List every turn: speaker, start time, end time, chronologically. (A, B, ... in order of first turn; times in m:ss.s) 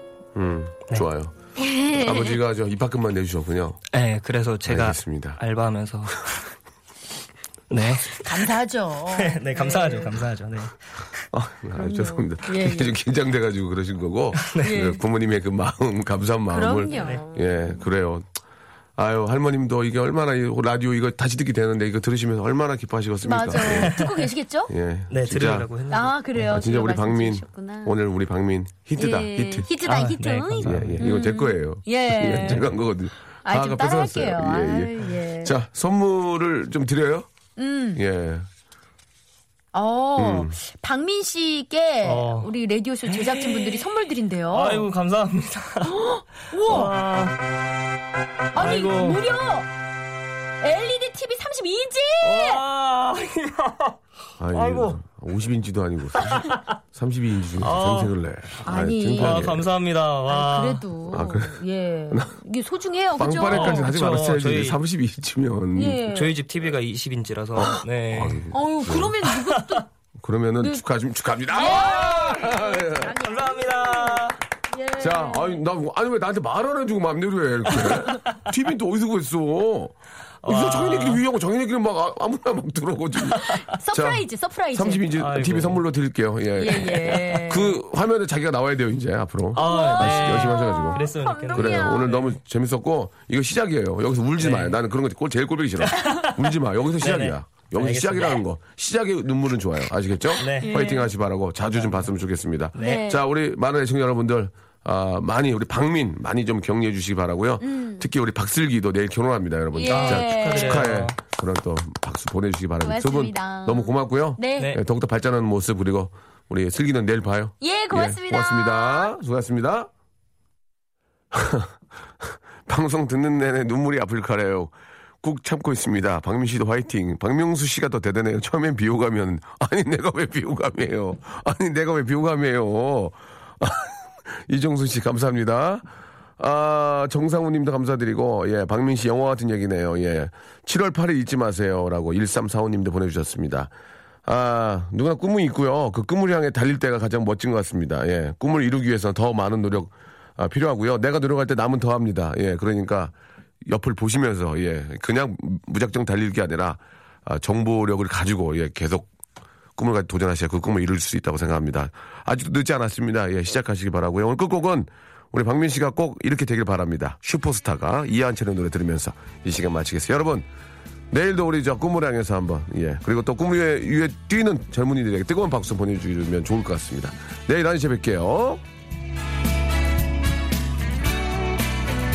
0:00.4-0:01.4 A
0:01.6-0:02.4 B
0:01.9-0:03.8 A
0:03.9-0:06.4 C
0:04.7-0:05.4 A
0:07.7-0:08.5 C
0:08.2-0:10.2 B
0:09.2-0:10.8 C
0:11.3-0:18.3 A
0:11.8-0:13.0 B
0:14.4-0:14.8 C
0:14.6-0:15.0 B
0:16.5-0:17.6 B
0:16.9-0:17.2 C
0:19.0-0:24.0 A
0:23.2-0:24.7 B
0:23.6-0:24.3 C
0:24.7-0:25.7 A
0:25.1-0:26.2 C
0:25.9-0:28.0 B
0:26.4-0:29.7 A
0:29.0-0:32.7 B
0:29.8-0:31.1 C
0:30.6-0:37.3 A
0:33.4-0:35.5 B
0:37.6-0:38.0 B
0:38.0-0:38.5 A
0:39.7-0:44.9 B
0:40.2-0:40.6 A
0:42.0-0:42.5 C
0:43.1-0:43.9 C
0:44.5-0:46.0 C
0:45.8-0:46.9 B
0:46.5-0:47.4 C
0:48.5-0:49.2 C
0:48.5-0:49.7 B
0:50.6-0:52.6 B
0:52.2-0:54.0 C
0:54.4-0:59.7 A
0:54.5-0:55.0 C
0:56.3-0:56.7 C
0:57.6-0:58.1 C
0:58.6-0:59.5 B
0:59.2-1:00.9 C
1:00.3-1:03.9 B
1:01.1-1:02.4 A
1:03.2-1:06.0 A
1:03.5-1:04.8 C
1:05.7-1:06.3 B
1:06.0-1:08.5 C
1:07.6-1:09.2 A
1:08.5-1:09.9 B
1:10.2-1:13.1 A
1:11.5-1:15.6 B
1:11.7-1:12.4 C
1:13.2-1:14.4 C
1:15.0-1:59.9 A
1:20.4-1:21.2 C
1:23.3-1:25.1 B
1:25.2-1:25.8 C
1:26.6-1:27.8 B
1:26.8-1:27.4 C
1:29.5-1:32.1 B
1:29.5-1:32.4 C
1:34.4-1:34.8 C
1:35.8-1:36.4 C
1:37.0-1:38.4 C
1:40.4-1:40.8 C
1:40.6-1:41.1 B
1:41.8-1:42.0 C
1:42.8-1:43.1 C
1:42.8-1:43.2 B
1:47.6-1:48.0 B
1:49.7-1:51.0 B
1:49.9-1:51.2 C
1:52.8-1:54.7 B
1:57.6-1:59.1 B
2:01.3-2:01.7 A
2:02.3-2:15.8 A
2:16.4-2:23.7 A
2:24.3-2:33.1 A
2:33.7-2:39.1 A
2:39.8-2:50.5 A
2:51.1-2:58.6 A